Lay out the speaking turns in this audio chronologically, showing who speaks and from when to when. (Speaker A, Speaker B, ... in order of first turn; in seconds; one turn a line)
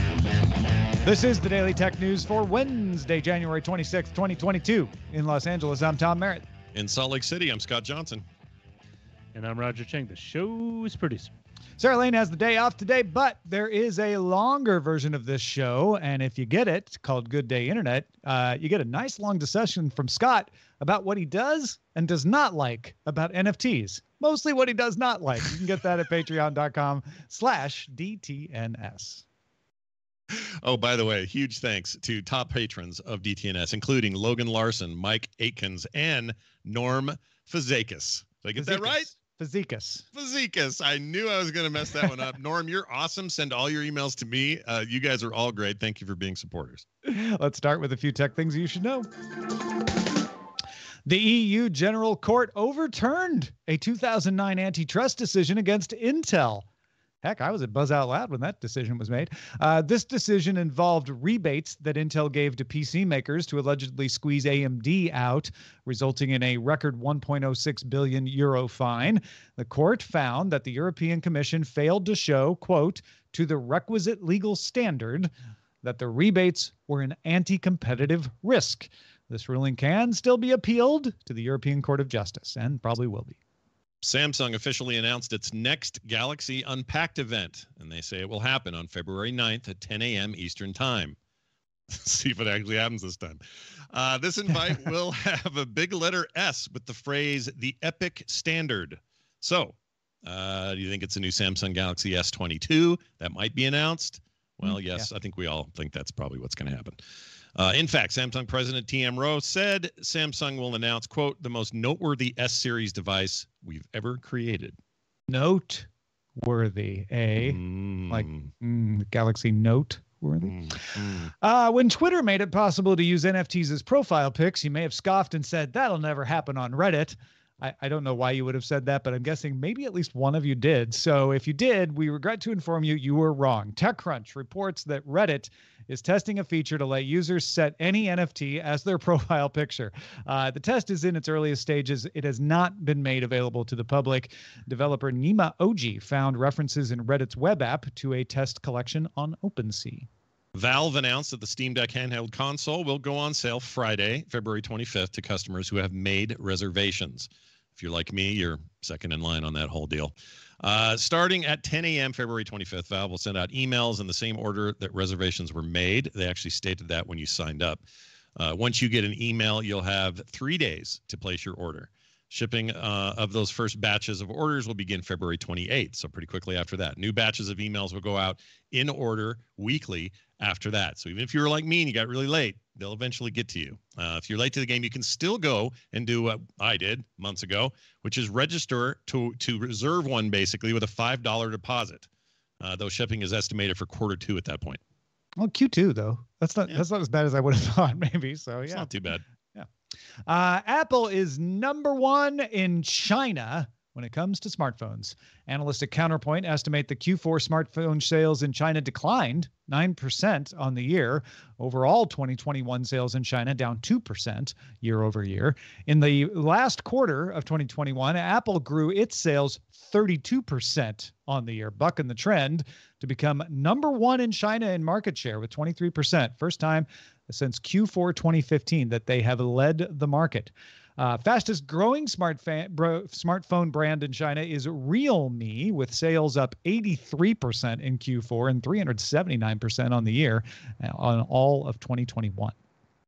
Speaker A: 1.0-6.5
Speaker B: 6.7-8.2
Speaker C: 9.3-11.3
Speaker A: 11.8-29.2
Speaker B: 30.3-39.1
Speaker A: 38.6-40.0
Speaker B: 40.1-46.8
Speaker A: 47.0-49.1
Speaker A: 51.0-56.6
Speaker A: 57.2-75.3
Speaker A: 75.8-83.4
Speaker B: 84.0-91.2
Speaker B: 91.9-107.0
Speaker B: 107.5-114.8
Speaker A: 115.3-150.1
Speaker B: 117.4-118.5
Speaker B: 120.4-121.3
Speaker B: 150.5-167.8
Speaker B: 168.3-192.1
Speaker B: 192.6-194.8
Speaker A: 195.4-198.9
Speaker B: 198.7-199.2
Speaker A: 200.3-242.5